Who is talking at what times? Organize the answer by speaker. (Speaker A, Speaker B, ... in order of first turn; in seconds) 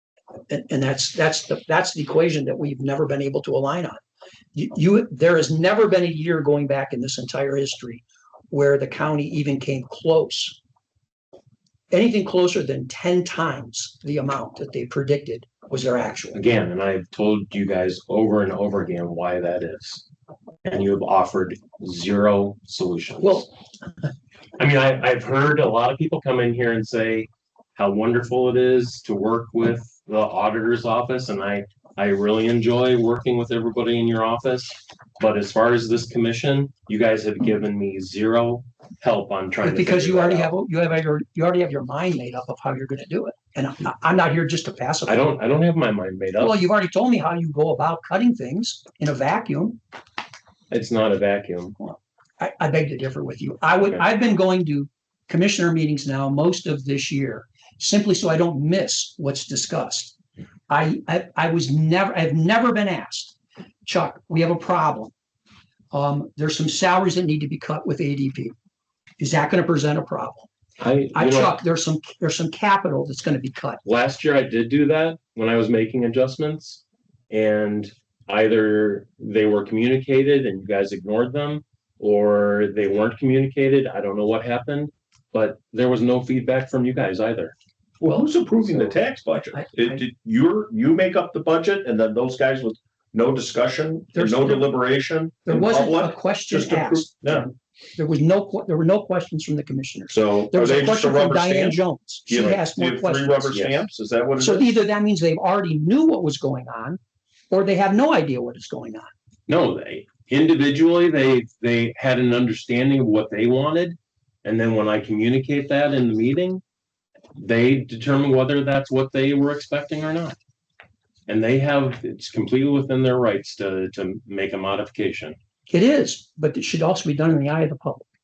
Speaker A: 0.5-4.0, 4.5-10.6, 11.9-16.4, 39.6-45.3, 46.4-49.8, 51.8-60.1, 60.7-65.1, 65.9-68.5, 69.2-70.5, 71.1-73.8, 88.0-88.3, 89.5-90.0, 94.1-94.7, 95.4-103.8, 104.4-107.0, 107.5-109.1, 125.7-128.1
Speaker B: 16.3-20.0, 20.6-23.5, 24.6-40.5, 45.0-46.7, 50.7-51.8, 70.8-71.6, 73.8-87.5, 109.5-116.6, 117.3-120.4, 121.3-125.4
Speaker C: 88.0-97.5, 100.1-104.8